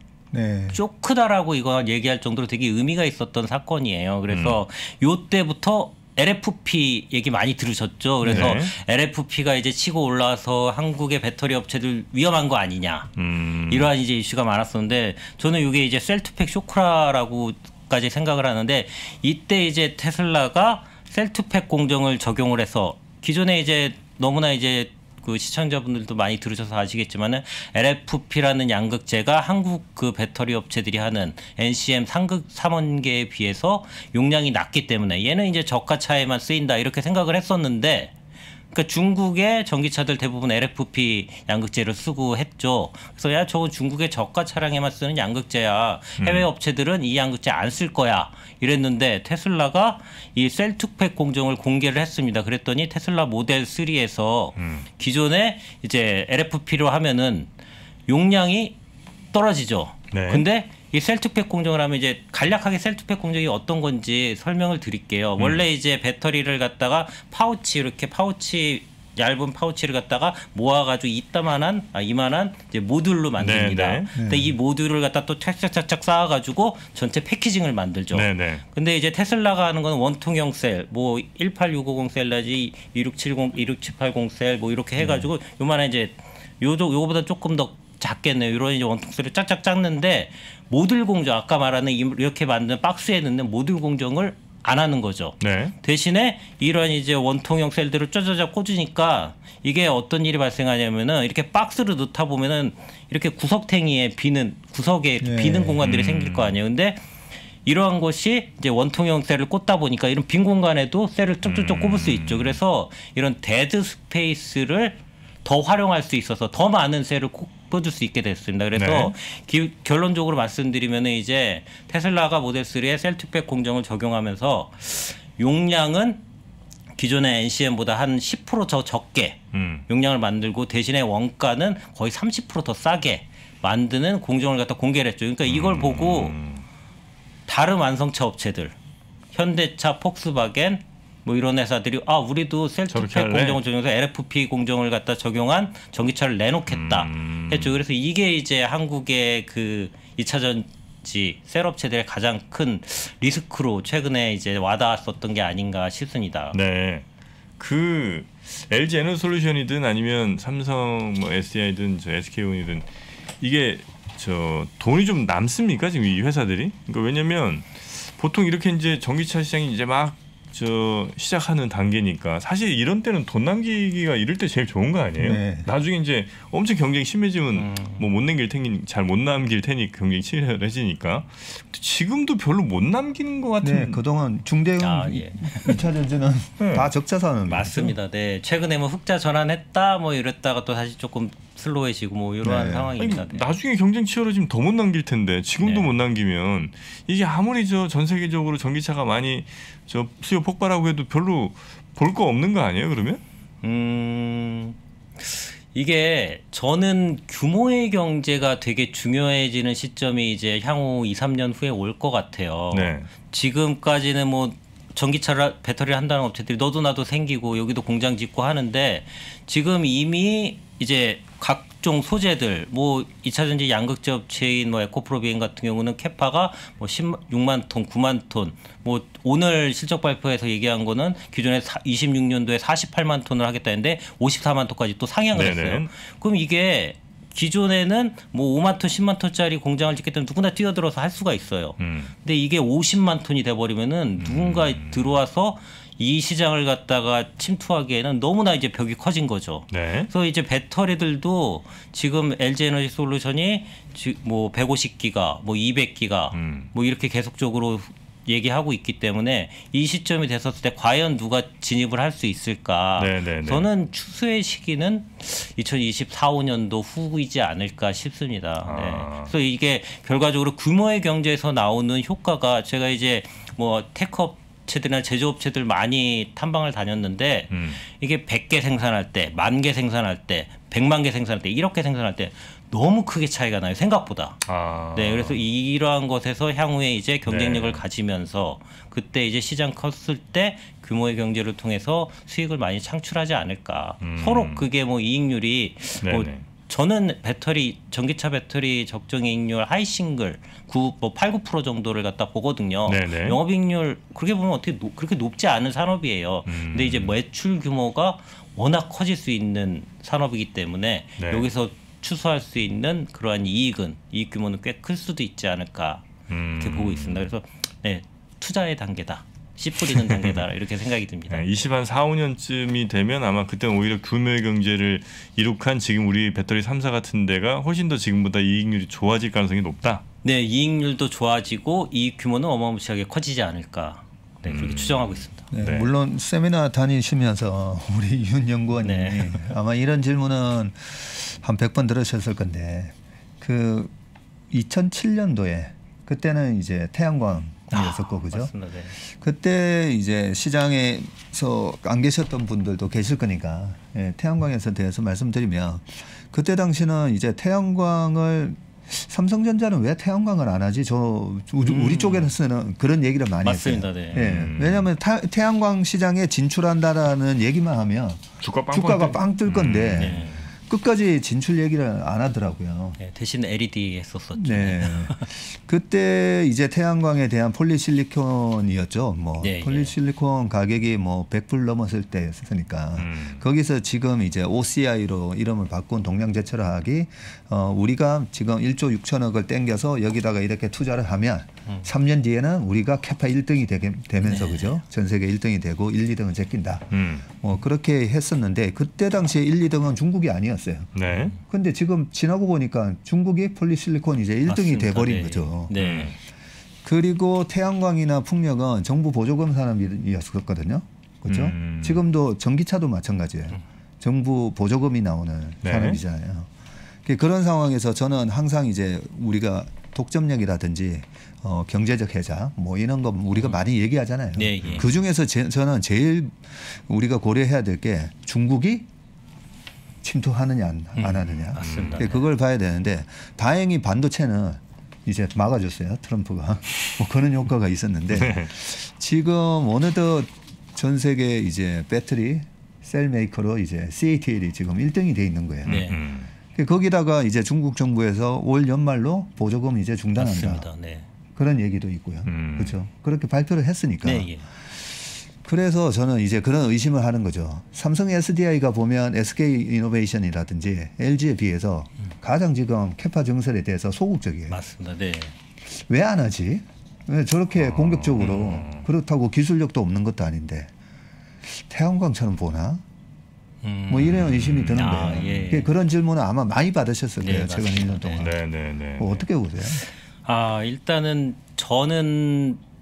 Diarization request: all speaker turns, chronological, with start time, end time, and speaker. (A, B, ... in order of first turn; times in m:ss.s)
0:00.3-0:00.8 A
0:00.7-0:13.1 B
0:04.3-0:04.6 C
0:08.2-0:08.6 A
0:08.3-0:08.7 C
0:13.2-0:13.9 C
0:13.7-0:38.1 B
0:38.7-0:57.5 B
0:46.2-0:46.5 C
0:54.6-0:54.9 C
0:58.1-0:58.8 B
0:59.3-1:47.0 B
1:00.1-1:00.4 C
1:13.4-1:14.1 C
1:14.1-1:14.5 A
1:18.1-1:18.6 C
1:35.4-1:35.8 C
1:45.2-1:45.8 A
1:45.8-1:46.6 C
1:47.6-2:06.2 B
1:51.4-1:52.6 C
1:58.7-1:59.1 C
2:07.0-2:16.4 B
2:09.5-2:09.8 C
2:15.4-2:16.6 C
2:17.5-2:18.7 B
2:19.3-2:36.6 B
2:22.9-2:23.6 C
2:26.7-2:27.8 C
2:36.5-2:37.0 C
2:37.6-2:42.9 C
2:43.4-3:04.0 C
2:55.2-2:55.7 A
2:57.5-2:58.0 B
3:03.6-3:08.0 A
3:04.8-3:05.8 B
3:06.6-3:06.9 C
3:07.5-3:13.5 B
3:12.4-3:13.0 A
3:13.0-3:23.2 C
3:15.6-3:15.9 B
3:23.6-5:16.1 B
3:32.7-3:33.1 C
3:55.3-3:55.9 C
4:01.8-4:02.1 C
4:04.2-4:05.2 C
4:09.7-4:10.1 C
4:16.3-4:16.7 C
4:23.0-4:23.7 C
4:28.6-4:29.3 C
4:37.5-4:37.8 C
4:44.4-4:45.4 C
4:47.2-4:47.8 C
4:54.0-4:54.7 C
4:56.0-4:56.4 C
5:02.9-5:03.4 C
5:06.5-5:07.2 C
5:11.2-5:11.5 C
5:16.3-5:17.3 C
5:16.6-5:21.4 B
5:20.1-5:20.4 C
5:21.3-5:30.0 C
5:30.2-5:35.4 B
5:34.4-5:35.9 C
5:35.5-5:43.9 A
5:38.8-5:39.5 B
5:44.5-6:13.0 A
5:47.7-5:49.0 B
6:01.6-6:02.3 B
6:03.4-6:04.3 B
6:04.2-6:04.9 C
6:08.4-6:10.3 C
6:10.0-6:10.5 B
6:13.0-6:15.3 B
6:14.4-6:45.7 A
6:19.4-6:19.9 B
6:23.0-6:23.4 C
6:34.2-6:34.8 B
6:36.9-6:37.2 C
6:41.0-6:41.3 C
6:44.5-6:46.2 B
6:45.8-6:46.2 C
6:46.8-6:56.5 A
6:51.3-6:52.0 C
6:55.6-6:56.0 C
6:57.0-7:08.9 A
7:04.4-7:04.9 B
7:10.0-7:25.8 A
7:11.0-7:12.2 B
7:11.6-7:12.1 C
7:18.1-7:18.5 C
7:25.6-7:26.3 C
7:25.7-7:26.0 B
7:26.5-7:30.7 A
7:30.2-7:31.1 B
7:31.4-7:44.6 A
7:32.2-7:32.8 C
7:34.0-7:34.4 B
7:44.5-7:45.3 B
7:45.7-7:50.7 A
7:47.6-7:48.9 C
7:51.5-7:52.8 A
7:53.6-7:55.7 B
7:53.9-7:58.4 A
7:54.3-7:55.4 C
7:57.2-7:58.3 B
7:58.2-7:59.2 C
7:59.0-7:59.8 A
8:00.2-8:02.6 B